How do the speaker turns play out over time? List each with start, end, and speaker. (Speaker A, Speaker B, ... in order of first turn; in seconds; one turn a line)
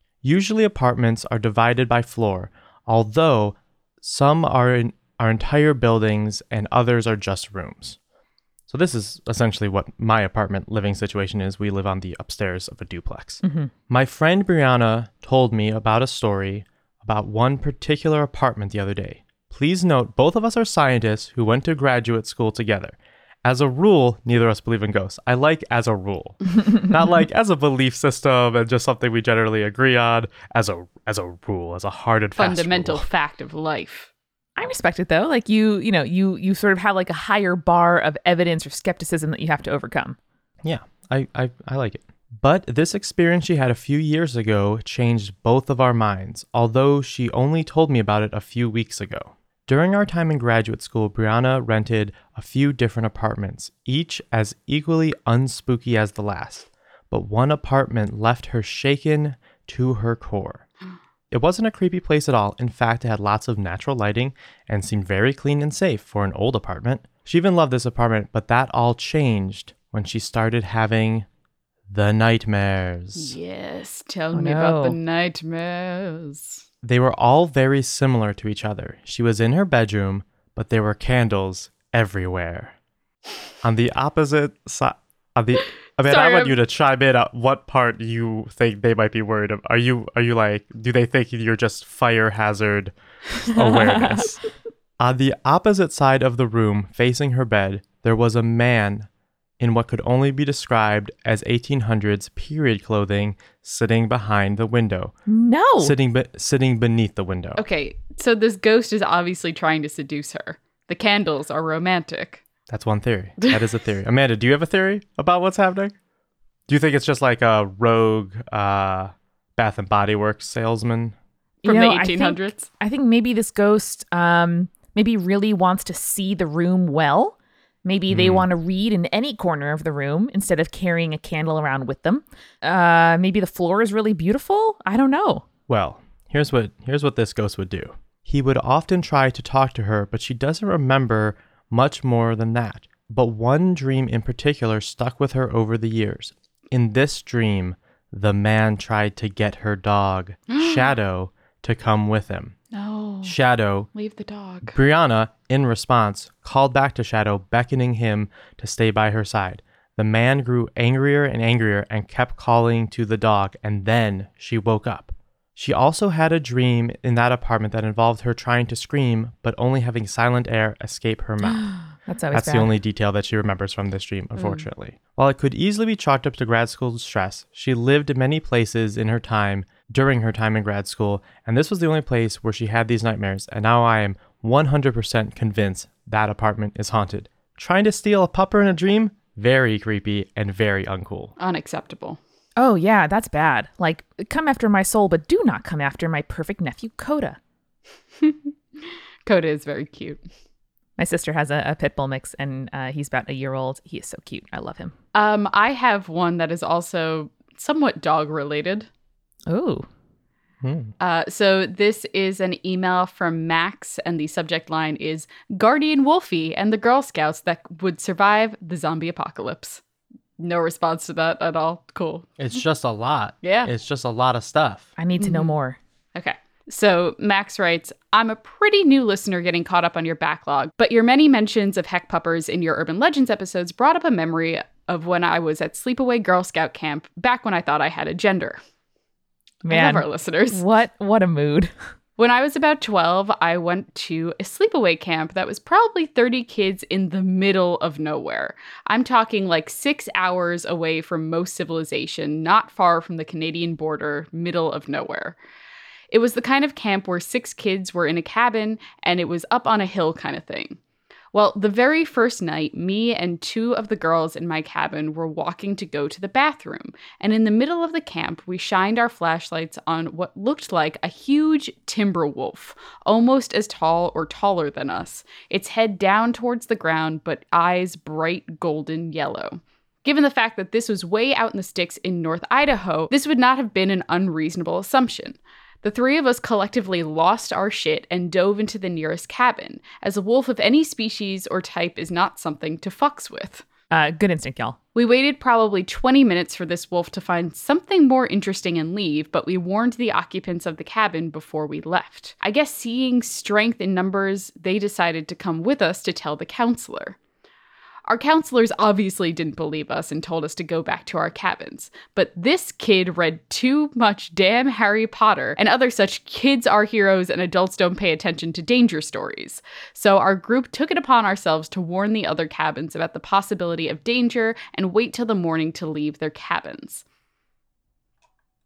Speaker A: 0.2-8.0
Speaker A: 8.7-33.0
Speaker B: 13.4-13.7
Speaker C: 32.4-34.1
Speaker B: 34.6-40.2
Speaker A: 40.6-60.6
Speaker A: 61.3-71.3
Speaker A: 71.9-73.3
Speaker C: 73.2-76.6
Speaker B: 74.3-75.0
Speaker A: 76.8-82.8
Speaker A: 83.6-94.4
Speaker C: 86.1-86.5
Speaker B: 93.7-94.1
Speaker A: 95.0-99.1
Speaker A: 99.6-105.2
Speaker B: 105.3-105.9
Speaker A: 105.8-107.6
Speaker C: 107.6-112.4
Speaker A: 112.7-115.9
Speaker A: 116.7-121.2
Speaker C: 121.6-122.7
Speaker B: 121.7-135.4
Speaker A: 128.1-128.5
Speaker A: 135.7-152.6
Speaker C: 150.5-150.9
Speaker C: 152.7-153.3
Speaker A: 153.2-153.9
Speaker C: 153.9-154.8
Speaker A: 154.7-171.7
Speaker B: 172.1-172.7
Speaker A: 172.3-191.3
Speaker C: 174.4-174.6
Speaker C: 191.4-192.2
Speaker B: 192.6-197.4
Speaker C: 198.2-198.5
Speaker C: 199.2-200.2
Speaker B: 201.0-204.9
Speaker C: 205.1-208.9
Speaker B: 209.5-209.8
Speaker A: 210.6-210.9
Speaker C: 211.0-219.8
Speaker C: 220.4-222.3
Speaker A: 222.4-224.9
Speaker C: 223.4-223.7
Speaker B: 225.0-225.8
Speaker C: 225.2-225.5
Speaker C: 226.2-238.6
Speaker B: 239.7-241.7
Speaker C: 239.7-240.6
Speaker C: 242.2-255.4
Speaker C: 256.1-260.8
Speaker C: 261.3-293.6
Speaker B: 293.9-294.8
Speaker C: 294.9-307.2
Speaker C: 308.1-327.0